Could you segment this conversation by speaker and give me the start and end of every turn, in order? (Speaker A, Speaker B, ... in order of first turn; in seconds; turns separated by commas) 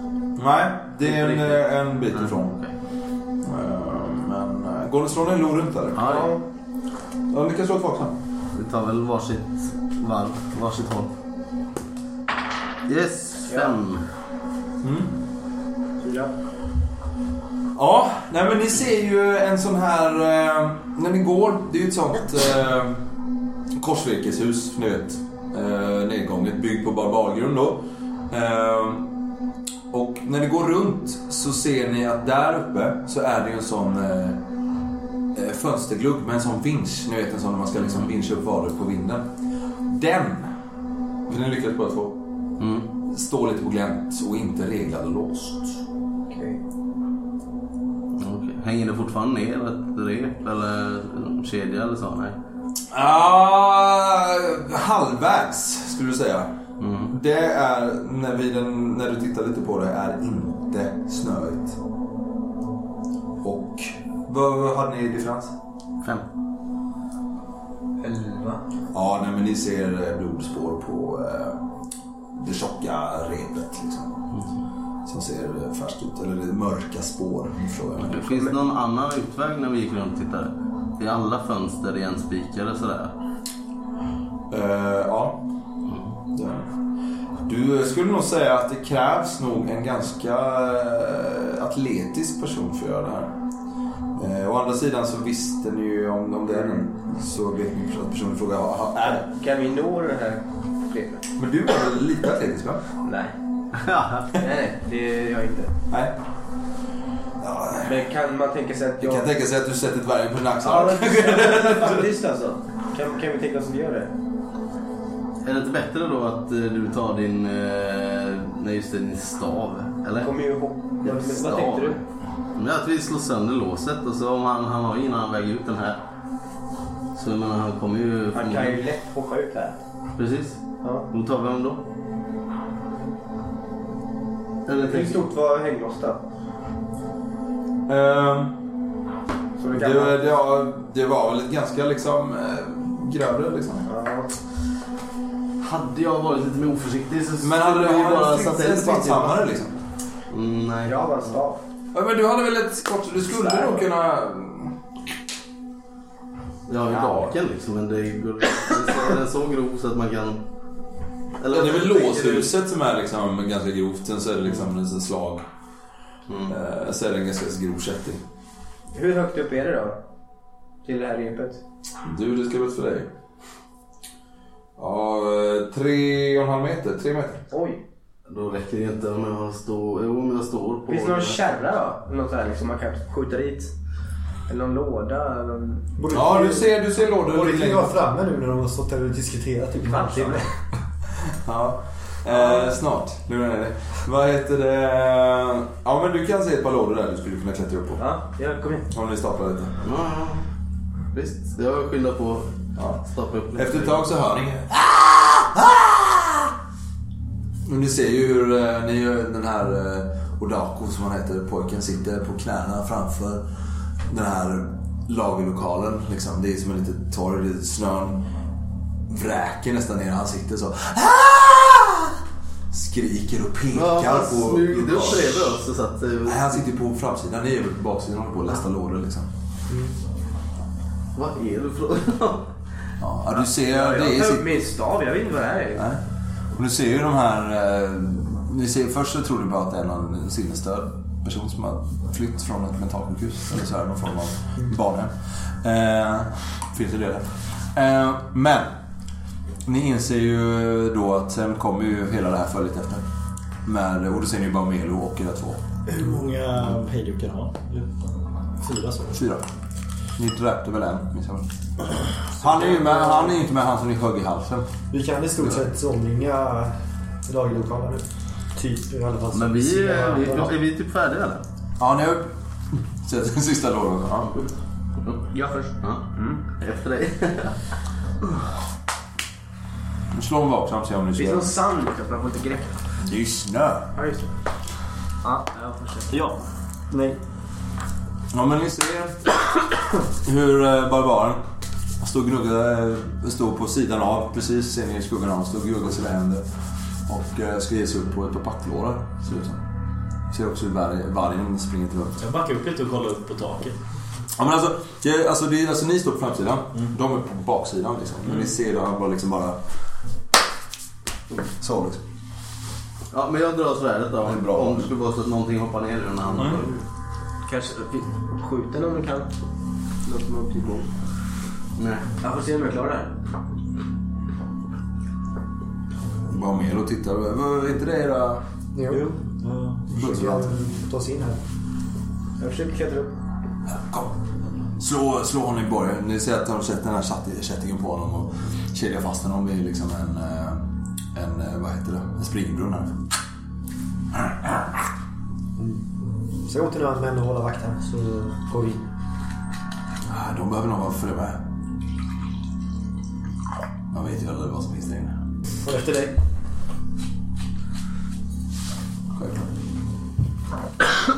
Speaker A: 0.3-2.6, Speaker B: 1.1-1.4, Speaker B: 2.2-2.7, Speaker A: 3.4-6.1, Speaker B: 6.0-6.3, Speaker C: 6.0-6.4, Speaker A: 7.3-8.2, Speaker B: 8.5-11.1, Speaker B: 12.9-14.0, Speaker C: 13.5-13.8, Speaker A: 14.8-15.1, Speaker C: 16.0-16.3, Speaker A: 17.8-23.0, Speaker A: 23.8-29.1, Speaker A: 29.9-34.4, Speaker A: 35.3-39.2, Speaker A: 39.9-40.5, Speaker A: 41.3-42.2, Speaker B: 42.6-42.9, Speaker A: 43.1-45.8, Speaker C: 46.3-46.6, Speaker B: 48.1-52.4, Speaker A: 52.9-56.5, Speaker B: 56.8-57.1, Speaker A: 57.1-61.8, Speaker A: 63.4-65.5, Speaker C: 68.0-68.6, Speaker A: 68.9-71.6, Speaker A: 72.3-74.2, Speaker A: 75.0-78.3, Speaker B: 78.1-83.1, Speaker A: 84.5-85.4, Speaker B: 85.9-86.1, Speaker A: 86.3-86.7, Speaker A: 87.5-93.3, Speaker A: 94.1-99.2, Speaker C: 96.5-96.8, Speaker C: 99.0-101.2, Speaker A: 101.4-102.8, Speaker C: 103.0-103.3, Speaker B: 103.7-104.3, Speaker C: 104.3-105.7, Speaker A: 107.4-108.0, Speaker C: 107.8-109.2, Speaker A: 109.0-112.1, Speaker C: 110.6-114.1, Speaker B: 115.4-120.3, Speaker C: 120.2-122.0, Speaker B: 121.0-122.0, Speaker B: 122.5-126.0, Speaker B: 127.1-128.8, Speaker C: 128.3-129.8, Speaker B: 130.2-131.8, Speaker B: 134.7-135.2, Speaker C: 134.7-136.2, Speaker A: 137.9-138.5, Speaker C: 139.6-140.2, Speaker A: 139.7-143.8, Speaker C: 143.8-144.3, Speaker B: 145.6-149.4, Speaker A: 147.4-149.8, Speaker B: 150.3-151.4, Speaker C: 150.8-151.6, Speaker A: 151.9-154.7, Speaker C: 153.4-153.8, Speaker B: 156.7-160.4, Speaker A: 156.9-157.3, Speaker B: 161.4-162.5, Speaker A: 161.5-165.4, Speaker B: 166.3-166.5, Speaker A: 166.5-168.2, Speaker C: 168.9-170.0, Speaker C: 170.8-171.6, Speaker A: 172.0-173.1, Speaker A: 174.8-177.4, Speaker C: 177.5-177.8, Speaker B: 178.3-181.4, Speaker C: 180.9-183.7, Speaker C: 184.5-185.9, Speaker D: 186.0-190.5, Speaker A: 186.1-187.9, Speaker C: 189.8-190.5, Speaker A: 191.2-198.0, Speaker C: 198.0-198.9, Speaker A: 198.9-199.8, Speaker B: 199.8-200.4, Speaker B: 201.1-204.0, Speaker A: 202.8-203.0, Speaker A: 203.5-206.5, Speaker A: 207.6-213.4, Speaker A: 214.1-218.2, Speaker A: 219.1-222.2, Speaker A: 222.7-225.6, Speaker B: 223.7-226.5, Speaker A: 226.2-229.3, Speaker B: 231.1-232.5, Speaker A: 233.0-234.4, Speaker C: 233.4-235.8, Speaker A: 235.7-236.0, Speaker A: 236.5-248.7, Speaker A: 249.6-253.0, Speaker A: 253.6-255.7, Speaker E: 255.9-258.0, Speaker E: 258.6-259.1, Speaker A: 259.1-259.4, Speaker A: 260.1-261.5, Speaker A: 262.3-264.7, Speaker D: 264.9-266.7, Speaker A: 265.4-265.6, Speaker D: 267.2-270.5, Speaker B: 269.3-271.4, Speaker A: 271.8-274.4, Speaker C: 275.3-276.4, Speaker B: 276.6-277.6, Speaker A: 280.1-281.5, Speaker C: 281.1-282.7, Speaker A: 283.0-283.9, Speaker C: 283.9-284.3, Speaker C: 285.2-286.1, Speaker E: 286.1-286.4, Speaker D: 286.9-287.2, Speaker A: 288.3-289.2, Speaker A: 290.1-291.4, Speaker A: 292.0-296.4, Speaker A: 297.1-299.6, Speaker A: 300.3-302.2, Speaker E: 302.2-303.8, Speaker A: 304.4-309.6, Speaker A: 311.5-312.0, Speaker B: 313.1-316.8, Speaker A: 314.2-314.9, Speaker A: 316.3-316.6, Speaker C: 317.4-319.3, Speaker C: 320.0-320.9, Speaker B: 321.8-322.1, Speaker C: 322.2-323.1, Speaker A: 326.3-328.4, Speaker D: 328.7-329.2, Speaker E: 328.9-330.0, Speaker D: 329.9-331.4, Speaker A: 329.9-330.5, Speaker C: 332.4-333.1, Speaker A: 333.7-334.2, Speaker A: 334.8-343.0, Speaker A: 344.1-344.8, Speaker D: 345.6-345.8, Speaker D: 346.4-348.9, Speaker A: 350.1-351.4, Speaker A: 353.9-355.1, Speaker D: 355.6-356.1, Speaker A: 359.1-359.5